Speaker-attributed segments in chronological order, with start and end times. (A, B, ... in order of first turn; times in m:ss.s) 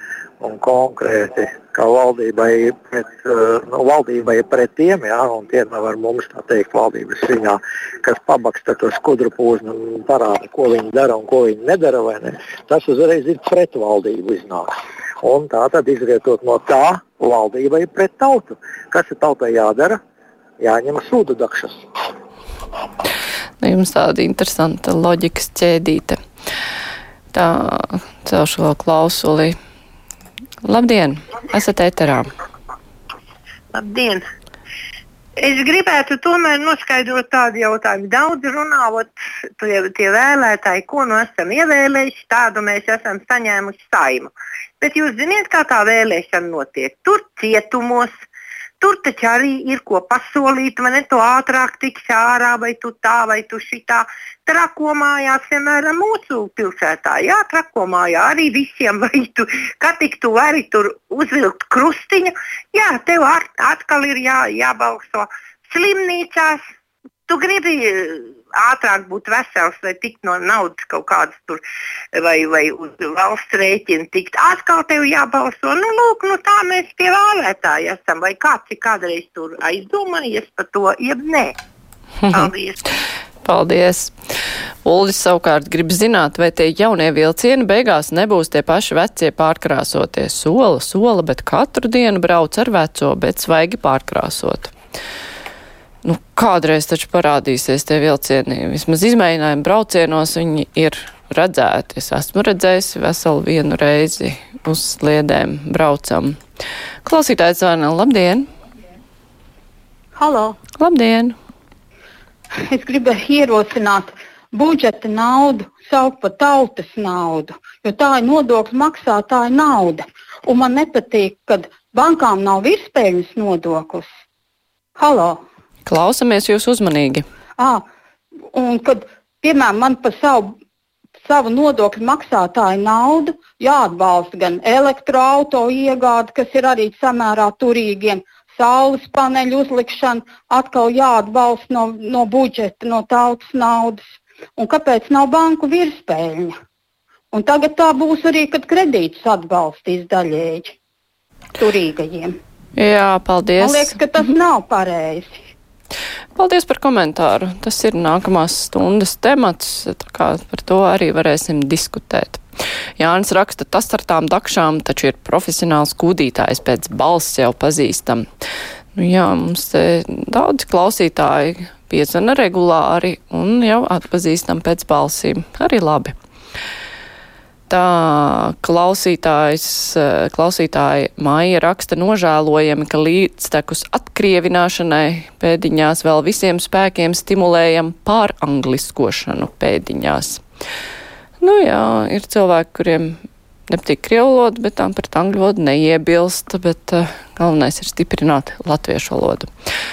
0:00.4-0:20.0 A
0:20.6-0:21.8 A
0:23.6-0:26.2 B
0:27.3-0:29.5 B
0:30.6-0:32.3 B
0:33.7-0:34.2 C
0:35.4-0:48.1 C
0:48.8-1:06.6 C
1:07.3-1:11.6 C
1:12.2-1:21.5 C
1:22.2-1:22.5 B
1:22.3-1:22.9 C
1:23.4-1:24.1 B
1:24.8-1:34.7 B
1:36.0-1:46.4 B
1:47.0-1:48.5 B
1:50.2-1:50.6 D
1:50.8-1:51.3 B
1:52.7-2:04.1 D
2:05.0-2:05.4 D
2:05.8-2:07.2 B
2:07.6-2:07.8 D
2:08.5-2:10.5 D
2:11.2-2:24.0 D
2:24.6-2:26.5 D
2:27.3-2:30.8 D
2:31.6-2:32.4 D
2:32.8-2:34.0 B
2:33.6-2:35.5 D
2:36.4-2:42.4 B
2:43.0-2:48.2 B
2:48.9-2:56.1 B
2:57.7-3:10.4 B
3:11.4-3:13.2 B
3:13.7-3:19.5 B